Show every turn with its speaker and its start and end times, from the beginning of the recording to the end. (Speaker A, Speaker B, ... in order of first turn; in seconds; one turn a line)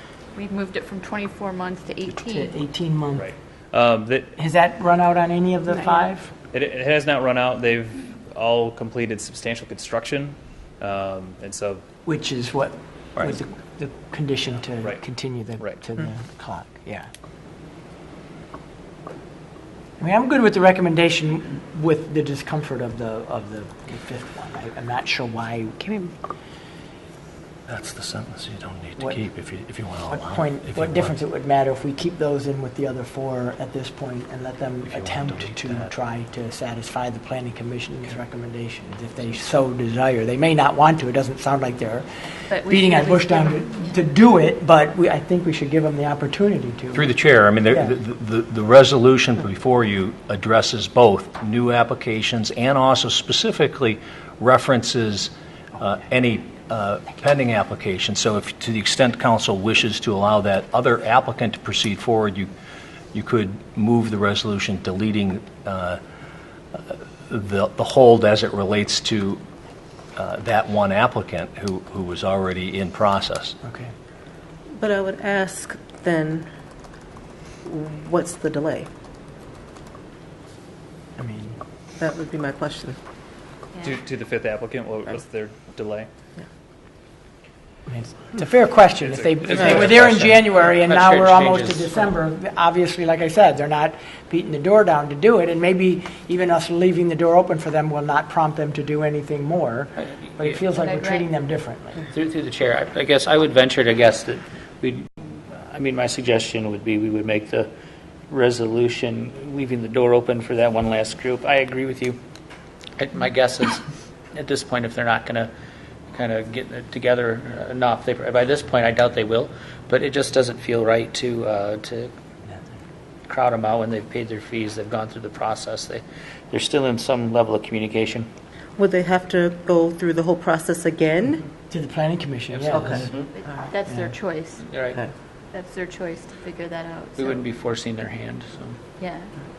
Speaker A: 0.3-2.5
Speaker B: 2.1-3.3
Speaker C: 3.1-4.3
Speaker B: 4.4-6.3
Speaker A: 5.7-6.1
Speaker C: 6.5-11.8
Speaker B: 12.1-17.1
Speaker B: 20.0-26.0
Speaker D: 27.7-31.2
Speaker B: 30.1-42.1
Speaker D: 34.8-35.9
Speaker A: 42.5-44.0
Speaker B: 42.6-47.1
Speaker D: 46.9-62.5
Speaker D: 63.1-66.0
Speaker D: 66.7-69.4
Speaker D: 70.2-73.6
Speaker B: 73.6-73.9
Speaker E: 74.8-76.5
Speaker E: 77.7-78.9
Speaker B: 81.2-81.6
Speaker E: 82.0-83.0
Speaker C: 83.8-86.1
Speaker B: 87.9-102.1
Speaker C: 89.0-90.0
Speaker F: 89.4-92.1
Speaker F: 100.0-100.6
Speaker A: 100.8-101.3
Speaker F: 102.1-107.7
Speaker F: 108.3-112.2
Speaker F: 113.0-113.8
Speaker F: 114.3-115.5
Speaker F: 116.1-122.1
Speaker F: 123.3-128.3
Speaker E: 128.8-131.5
Speaker B: 131.7-133.3
Speaker F: 132.5-133.3
Speaker E: 132.7-133.7
Speaker A: 133.3-134.8
Speaker B: 133.9-134.1
Speaker F: 134.6-135.1
Speaker A: 135.5-137.5
Speaker F: 137.2-138.8
Speaker A: 139.0-139.3